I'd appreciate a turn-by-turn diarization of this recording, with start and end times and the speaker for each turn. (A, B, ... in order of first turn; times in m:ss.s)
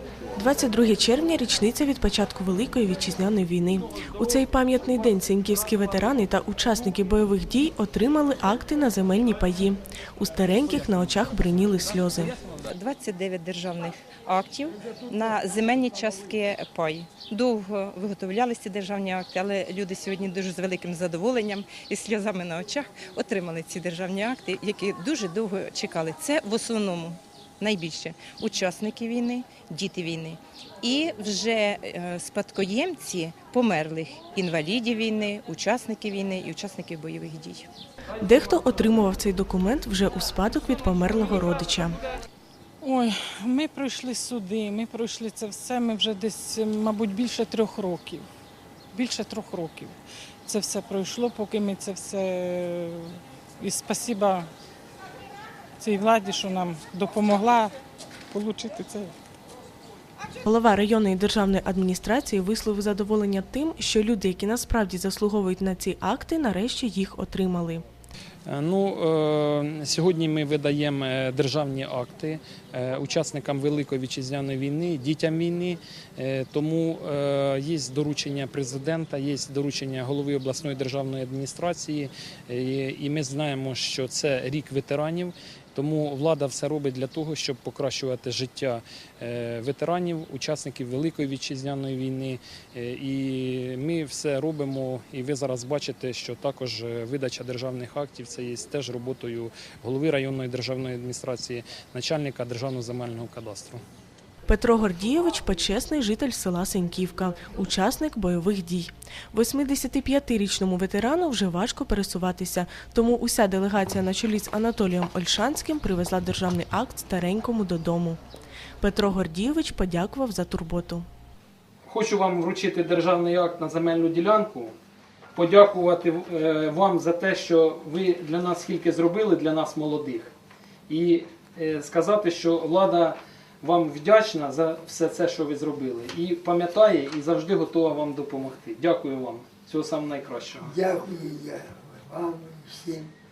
0:00.4-0:12.3 A
0:12.7-0:37.7 B
0:38.2-0:42.0 A
0:42.8-0:48.2 C
0:48.9-0:49.9 C
0:50.4-0:54.5 C
0:55.8-0:57.7 C
0:58.3-0:59.1 C
1:00.4-1:07.8 A
1:08.4-1:43.8 D
1:44.5-1:58.2 A
1:58.8-2:01.0 A
2:01.9-2:04.7 D
2:05.3-2:10.3 D
2:10.9-2:20.7 D
2:20.6-2:23.1 E